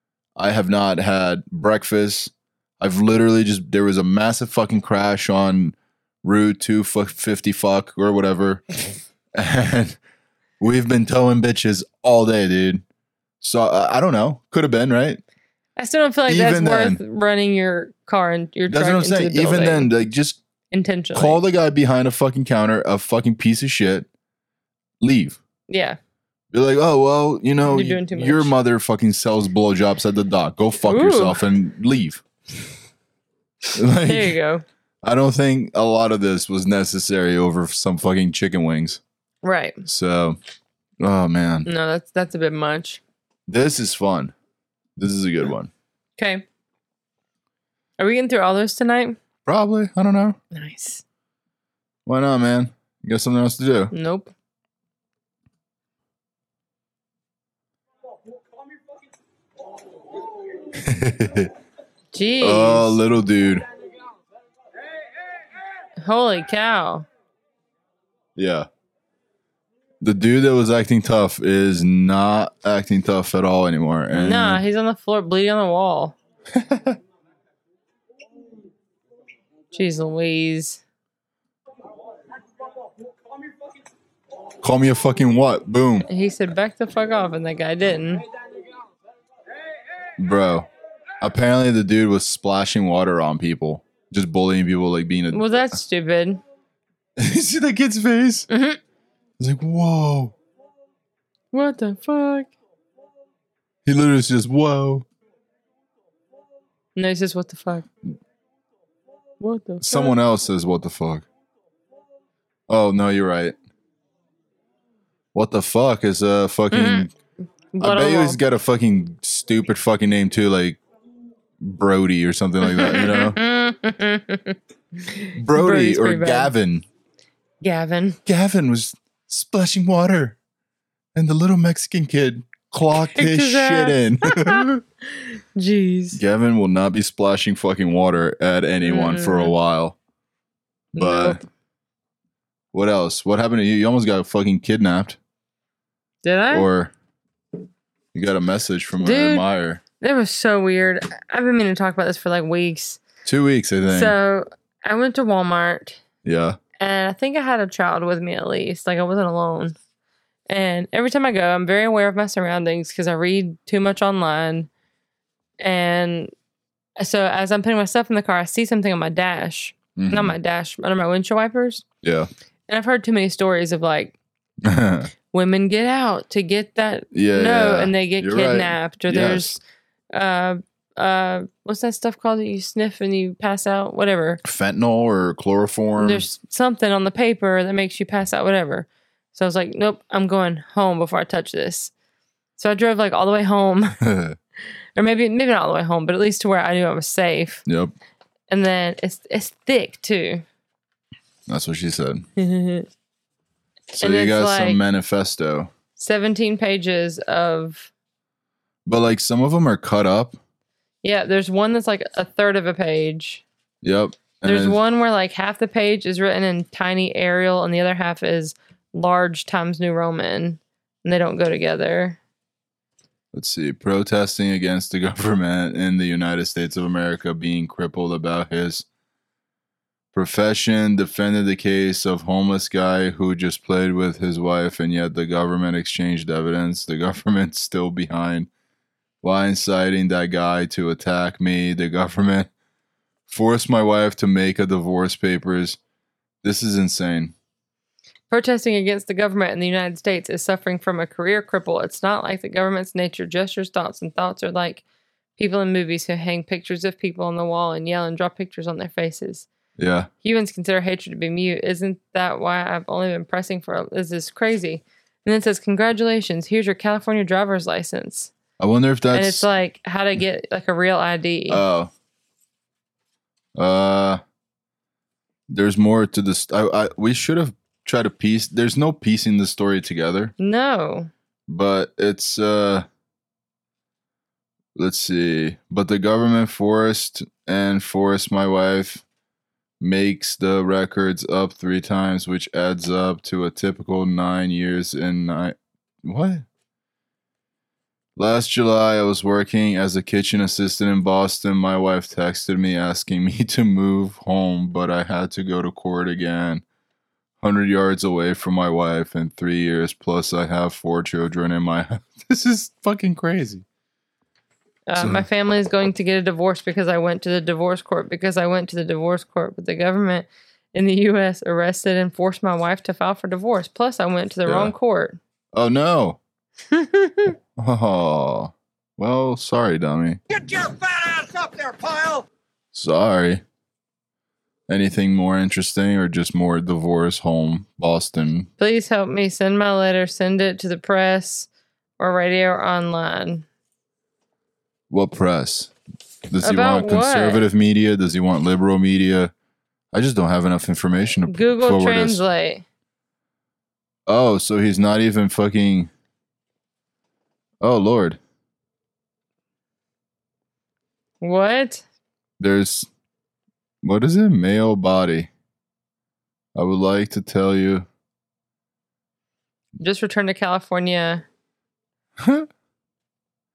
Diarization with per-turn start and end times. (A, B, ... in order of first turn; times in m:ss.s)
0:00.4-0:08.6 A
0:09.3-0:10.0 A
0:10.6-0:12.8 A
0:13.4-0:15.2 A
0:15.8-0:19.9 B
0:16.3-0:17.0 A
0:18.7-0:20.4 A
0:20.7-0:21.4 B
0:21.1-0:24.1 A
0:25.0-0:25.4 A
0:25.7-0:26.0 B
0:26.5-0:32.2 A
0:27.6-0:28.5 B
0:30.8-0:31.4 B
0:33.7-0:34.4 A
0:34.0-0:34.6 B
0:35.0-0:39.0 A
0:39.4-0:39.8 B
0:39.8-0:40.4 A
0:41.0-0:41.7 A
0:41.6-0:43.0 B
0:43.5-0:44.3 A
0:45.0-0:45.7 A
0:46.2-0:46.4 B
0:48.0-0:49.2 B
0:49.4-0:50.4 A
0:50.5-0:51.0 B
0:52.0-0:53.9 A
0:53.9-0:54.3 B
1:00.7-1:01.5 A
1:02.1-1:03.0 B
1:02.4-1:03.6 A
1:06.0-1:07.1 B
1:08.4-1:08.7 A
1:10.0-1:14.6 A
1:14.1-1:16.1 B
1:16.5-1:17.0 A
1:19.7-1:20.8 B
1:24.6-1:26.1 A
1:26.1-1:28.2 B
1:30.2-1:30.7 A
1:31.2-1:35.8 A
1:35.3-1:36.4 B
1:37.2-1:38.5 A
1:38.5-1:38.8 B
1:39.4-1:40.3 A
1:41.5-1:42.5 B
1:43.8-1:45.0 A
1:47.0-1:47.8 B
1:49.4-1:50.2 B
1:49.8-1:51.2 A
1:52.7-1:53.6 A
1:55.3-1:57.1 A
1:56.7-1:57.1 B
1:57.7-1:58.4 B
1:57.8-2:00.8 A
2:01.6-2:03.4 A
2:02.6-2:06.5 B
2:05.3-2:06.8 A
2:07.6-2:08.2 B
2:08.2-2:10.4 A
2:11.1-2:14.8 A
2:13.1-2:16.2 B
2:16.1-2:20.0 A
2:18.8-2:19.5 B
2:20.9-2:21.4 A
2:21.0-2:21.4 B
2:22.7-2:25.2 A
2:26.2-2:26.7 B
2:26.5-2:26.9 A
2:28.1-2:29.8 A
2:29.0-2:29.4 B
2:30.0-2:33.0 B
2:33.2-2:34.2 A
2:33.9-2:36.0 B
2:36.2-2:36.6 A
2:36.8-2:39.8 B
2:40.5-2:44.7 B
2:45.6-2:46.3 B
2:47.0-2:51.8 B
2:50.0-2:50.4 A
2:52.0-2:52.3 A
2:52.7-2:54.1 B
2:54.6-2:55.1 A
2:55.3-2:59.6 B
2:57.1-2:59.6 A
3:00.1-3:04.4 B
3:04.4-3:06.2 A
3:06.0-3:11.9 B
3:12.6-3:14.0 B
3:14.0-3:14.4 A
3:15.0-3:17.6 B
3:17.6-3:17.9 A
3:18.5-3:20.4 B
3:21.5-3:22.3 A
3:22.4-3:22.9 B
3:23.9-3:25.7 A
3:24.0-3:24.8 B
3:26.0-3:27.9 B
3:28.8-3:30.4 A
3:31.0-3:33.4 B
3:33.8-3:34.8 A
3:34.4-3:42.2 B
3:43.3-3:48.8 A
3:50.1-3:58.5 A
3:59.2-4:02.5 A
4:03.3-4:05.8 A
4:06.4-4:07.3 A
4:08.3-4:14.8 B
4:15.4-4:19.5 B
4:19.8-4:20.1 A
4:20.2-4:28.3 B
4:28.6-4:29.4 A
4:29.1-4:31.6 B
4:31.5-4:31.9 A
4:33.5-4:34.2 A
4:35.5-4:40.3 A
4:40.4-4:41.1 B
4:41.5-4:42.8 A
4:44.7-4:49.0 A
4:49.8-4:56.4 A
4:58.2-5:06.6 A
5:07.4-5:13.6 A
5:14.9-5:25.2 B
5:15.0-5:15.2 A
5:24.4-5:24.7 A
5:25.5-5:26.2 A
5:26.7-5:27.3 B
5:27.6-5:30.2 A
5:30.3-5:32.2 C
5:32.7-5:33.4 A
5:34.7-5:38.5 A
5:38.6-5:41.5 B
5:42.0-5:43.4 B
5:44.9-5:45.7 A
5:46.3-5:49.3 A
5:46.4-5:47.4 B
5:49.9-5:52.2 A
5:51.3-5:52.6 B
5:54.1-5:55.9 A
5:57.6-5:58.2 A
6:01.2-6:01.8 B
6:02.4-6:02.9 A
6:03.8-6:05.3 A
6:06.5-6:07.9 A
6:09.8-6:11.2 B
6:12.2-6:12.5 A